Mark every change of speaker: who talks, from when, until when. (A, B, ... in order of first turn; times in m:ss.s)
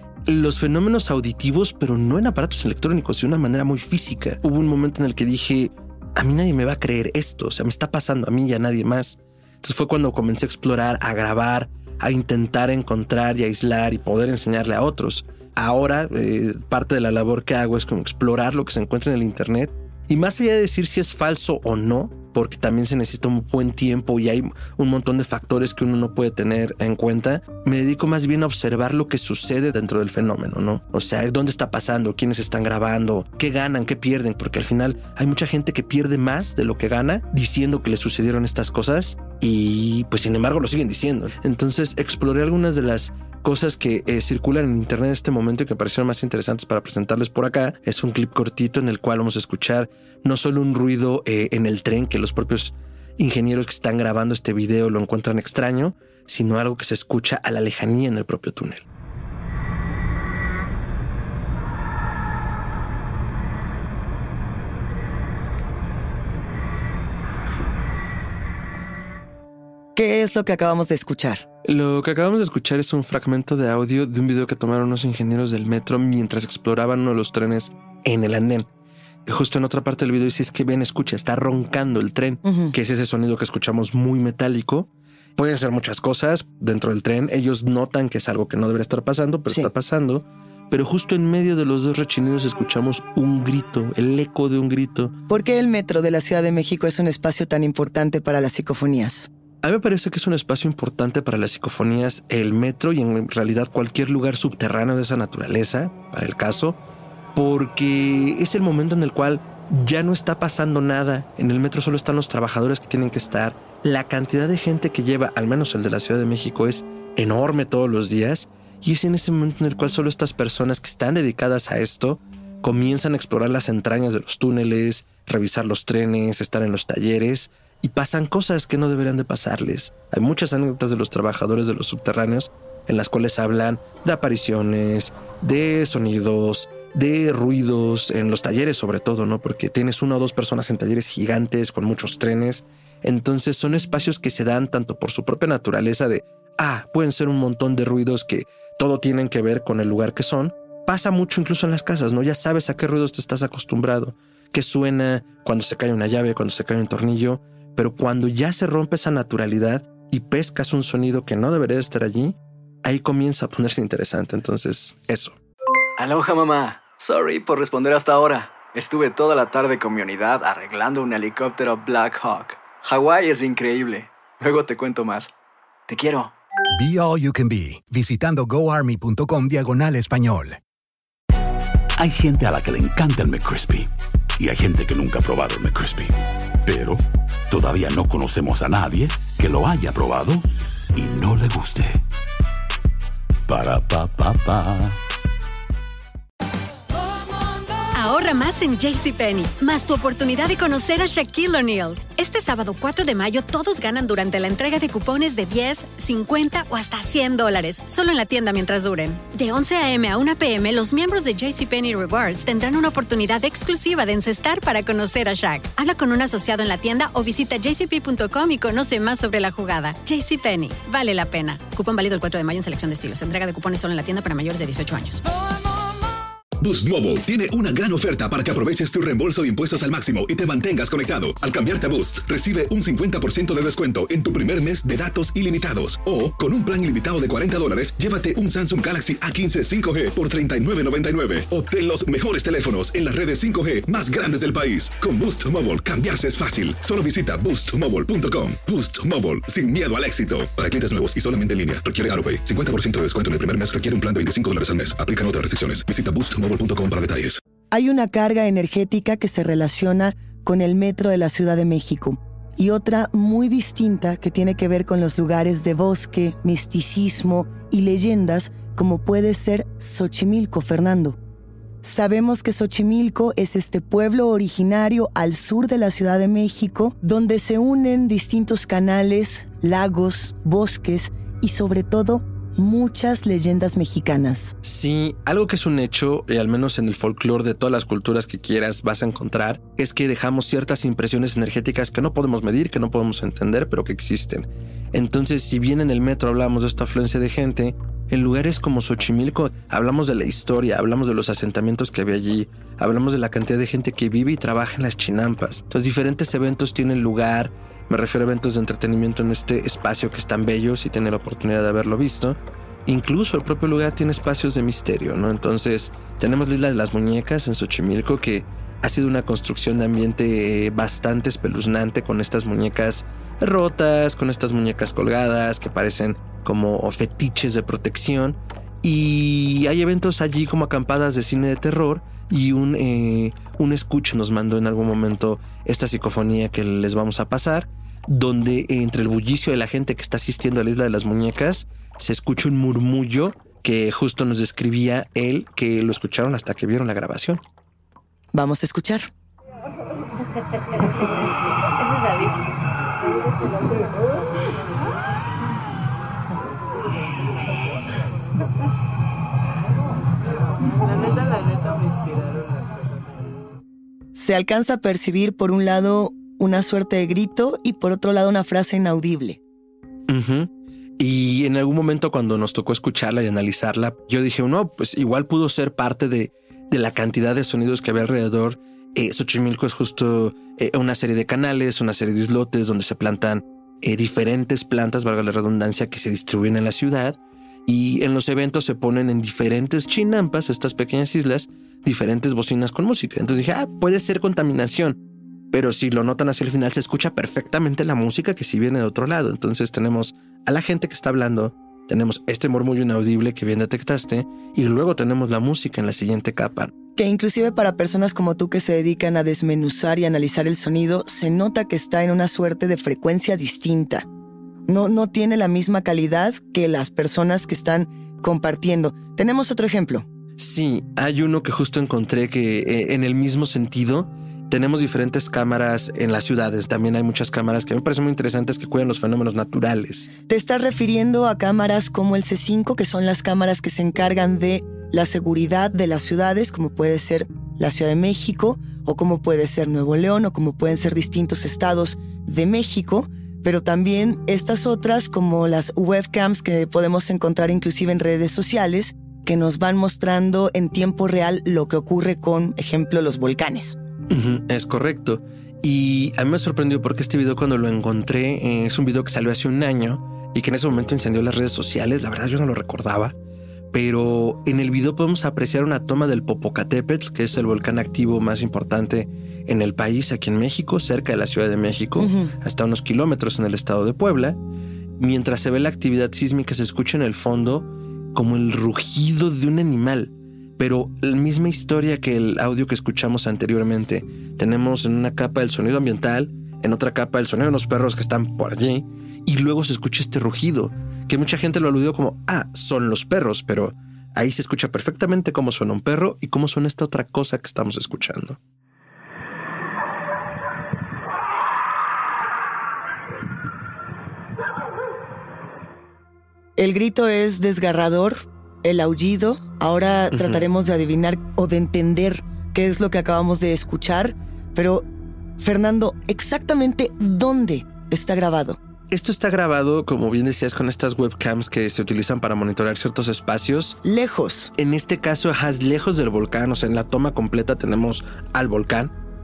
0:00.3-0:58.9 A
1:10.0-1:11.5 B
1:11.6-1:18.7 A
1:19.3-1:35.1 A
1:22.4-1:22.7 B
1:35.3-1:39.3 B
1:39.6-1:46.8 A
1:47.4-2:45.4 A
2:46.0-2:55.3 C
2:55.9-2:56.3 C
2:56.7-3:00.6 D
3:02.0-3:12.0 E
3:13.5-3:15.0 E
3:18.0-3:45.2 F
3:46.6-4:17.4 G
4:17.7-4:31.2 B
4:31.8-4:44.6 B
4:44.6-5:47.4 A
5:48.3-5:49.1 B
6:04.2-6:09.4 B
6:10.1-6:35.0 A
6:35.5-6:46.7 A
6:47.0-6:54.1 B
6:54.7-7:00.1 B
7:00.4-7:10.1 A
7:10.3-7:33.8 B
7:34.1-7:43.2 A
7:43.7-7:54.4 A
7:52.0-7:52.3 B
7:55.0-8:18.4 A
8:26.6-8:34.9 B
8:30.1-8:30.4 A
8:35.4-8:38.6 B
8:38.9-8:43.8 A
8:43.8-8:44.5 B
8:44.6-8:48.9 A